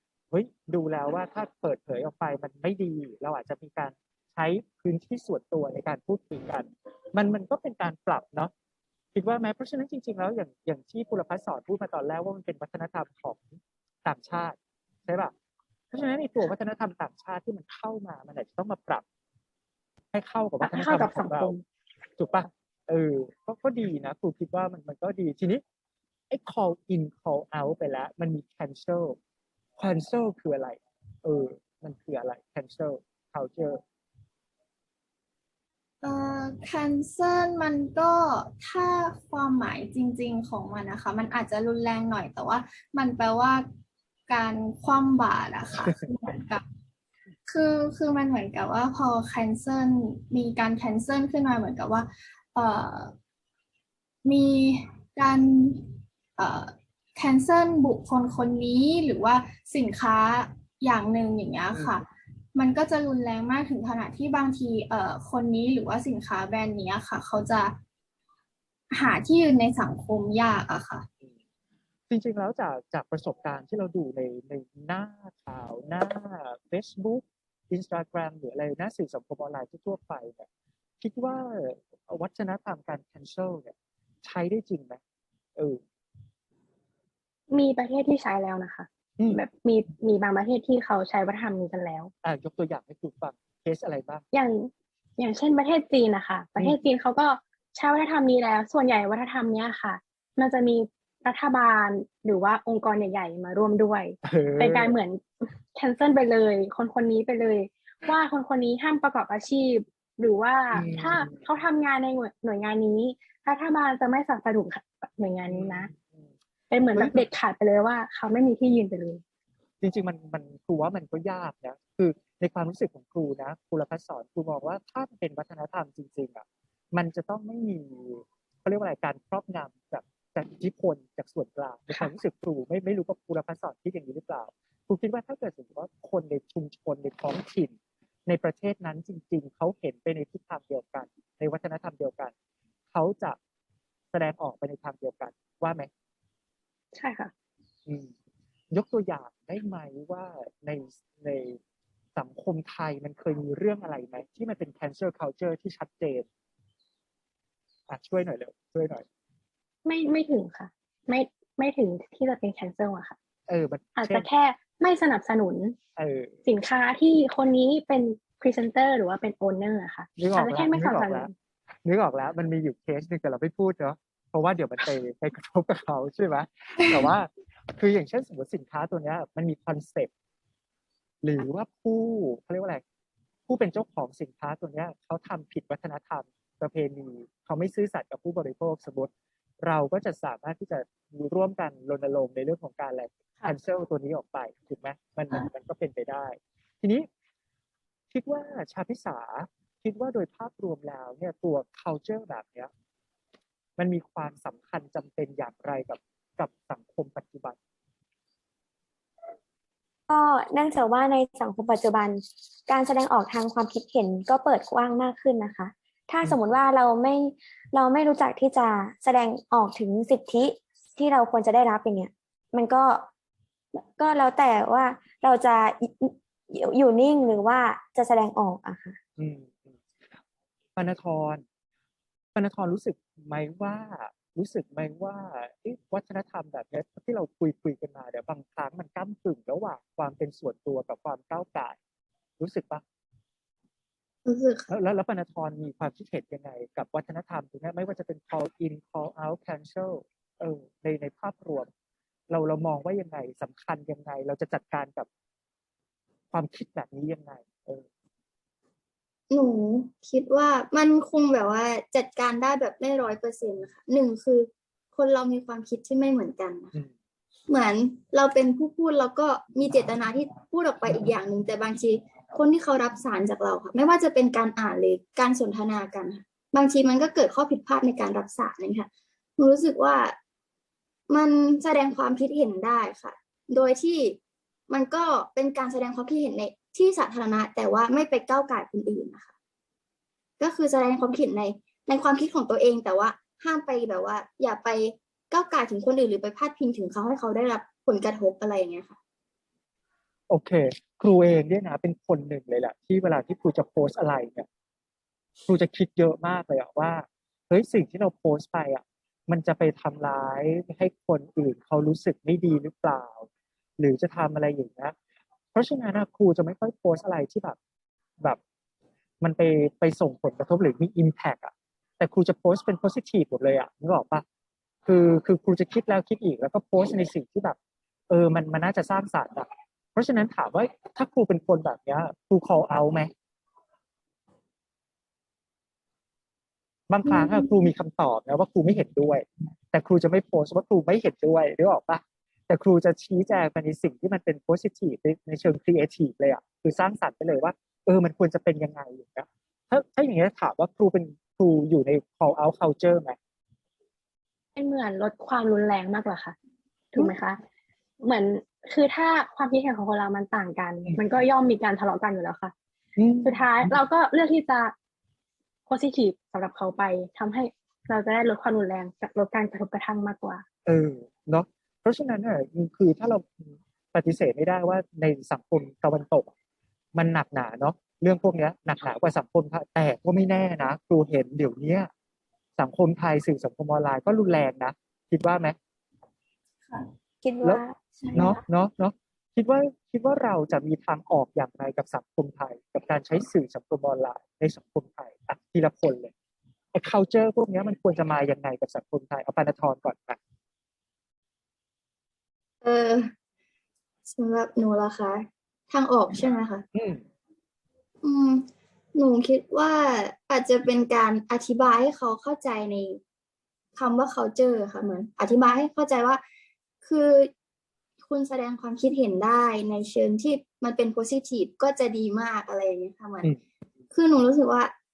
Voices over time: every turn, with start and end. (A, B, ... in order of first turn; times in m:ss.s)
0:00.3-0:08.5 A
0:09.1-0:13.5 A
0:14.0-0:15.3 A
0:15.9-0:19.0 A
0:20.1-0:21.6 A
0:20.6-0:21.6 B
0:22.2-0:25.6 A
0:26.3-0:29.2 A
0:29.8-0:33.8 A
0:36.0-0:43.7 C
0:44.3-0:46.6 C
0:47.5-0:53.2 C
0:54.2-1:02.0 C
1:01.7-1:02.1 A
1:02.6-1:07.8 C
1:08.9-1:11.1 C
1:12.1-1:20.5 A
1:21.0-1:25.0 A
1:25.6-1:25.8 A
1:27.5-1:32.1 B
1:32.2-1:34.2 A
1:34.3-1:55.9 B
1:44.2-1:45.0 A
1:50.7-1:51.5 A
1:55.5-1:56.3 A
1:56.7-1:59.2 B
1:56.9-1:57.3 A
1:59.8-2:17.7 A
2:18.3-2:22.3 A
2:22.9-2:23.4 A
2:24.1-2:25.9 A
2:26.9-2:27.3 B
2:27.9-2:28.1 A
2:28.7-2:31.6 A
2:32.2-2:36.3 A
2:37.9-2:39.0 A
2:39.8-2:43.2 B
2:43.5-2:44.3 A
2:44.0-2:45.8 B
2:46.0-2:46.3 A
2:46.5-2:51.3 B
2:50.2-2:51.3 A
2:51.8-3:00.1 A
3:01.2-3:02.8 A
3:03.5-3:09.1 A
3:09.6-3:17.1 A
3:18.1-3:22.7 A
3:23.8-3:27.6 A
3:30.1-3:43.1 D
3:36.2-3:36.6 A
3:43.7-3:49.0 D
3:49.2-3:49.8 A
3:50.8-3:51.4 A
3:52.4-4:01.8 A
4:02.4-4:02.8 A
4:04.3-4:04.7 E
4:04.7-4:11.7 A
4:12.3-4:15.1 A
4:16.3-4:17.8 A
4:19.3-4:26.7 E
4:27.5-4:40.2 E
4:41.1-4:44.2 E
4:44.7-4:49.3 E
4:50.4-4:59.0 E
5:00.3-5:04.5 A
5:05.5-5:15.0 A
5:15.5-5:17.6 A
5:19.2-5:24.2 A
5:24.9-5:27.6 A
5:28.1-5:33.1 A
5:36.9-5:53.2 A
5:54.6-5:56.4 B
5:56.9-5:57.4 B
5:58.0-6:02.5 B
6:00.9-6:01.2 A
6:03.0-6:03.8 A
6:03.2-6:04.7 B
6:05.7-6:10.4 B
6:10.7-6:16.3 A
6:17.0-6:21.9 A
6:22.6-6:25.6 A
6:27.2-6:27.8 D
6:28.0-6:28.4 C
6:28.2-6:36.1 A
6:36.7-6:40.2 A
6:42.6-6:43.1 E
6:44.1-6:46.6 E
6:46.7-6:47.0 A
6:48.0-6:53.0 E
6:53.8-6:56.2 E
6:56.8-6:57.3 E
6:58.0-7:03.3 E
7:03.9-7:04.7 E